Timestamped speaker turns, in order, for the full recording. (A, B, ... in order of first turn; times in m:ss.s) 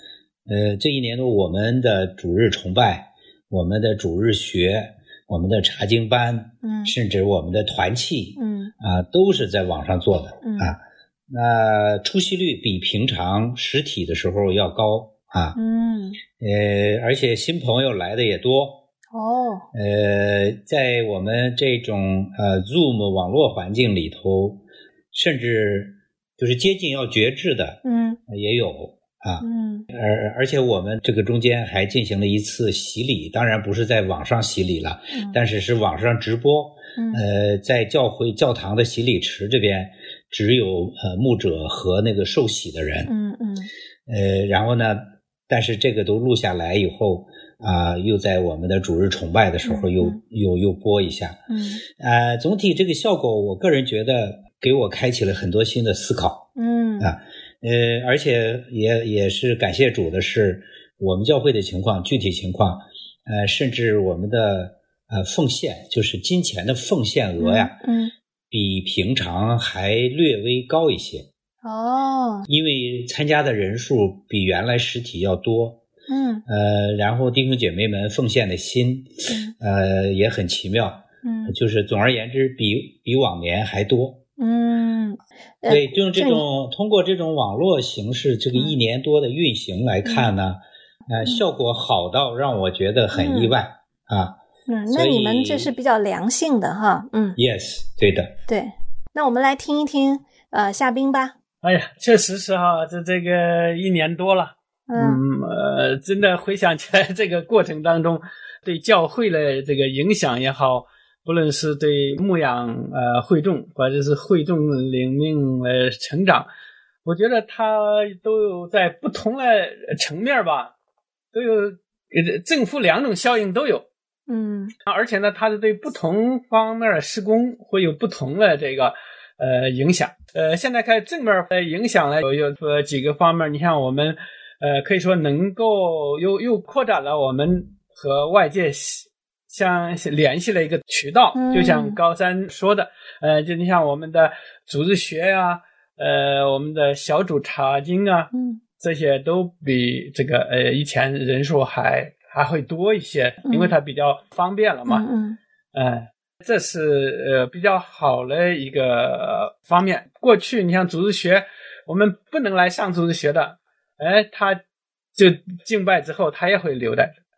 0:00.4-0:10.8 A
0:06.6-0:06.9 B
0:08.4-0:08.7 B
0:10.4-0:10.7 B
0:11.3-0:15.6 A
0:15.5-0:16.2 B
0:16.4-0:18.8 A
0:19.1-0:19.6 B
0:19.7-0:43.1 A
0:27.8-0:28.2 B
0:29.4-0:29.8 B
0:35.1-0:35.4 B
0:37.0-0:37.2 B
0:43.1-0:43.7 B
0:44.1-0:56.5 A
0:49.6-0:50.2 B
0:51.5-0:51.8 B
0:56.6-0:57.1 B
0:57.0-1:07.8 A
1:07.4-1:08.1 B
1:08.5-1:11.3 A
1:11.6-1:12.5 B
1:12.5-1:15.8 A
1:16.1-1:16.4 B
1:16.5-1:24.2 A
1:19.3-1:19.5 B
1:21.2-1:21.5 B
1:24.4-1:26.4 B
1:25.7-1:34.4 A
1:30.0-1:30.3 B
1:33.1-1:33.5 B
1:34.7-1:37.4 B
1:34.9-1:35.7 A
1:37.4-1:38.4 A
1:38.5-1:41.3 B
1:41.6-1:56.5 C
1:44.9-1:45.2 B
1:57.0-2:00.7 C
2:01.3-2:03.8 C
2:04.3-2:04.7 B
2:04.8-2:35.0 C
2:21.3-2:22.0 B
2:28.3-2:28.6 B
2:33.4-2:33.7 B
2:34.9-2:35.4 B
2:35.7-2:44.6 C
2:45.1-2:47.2 C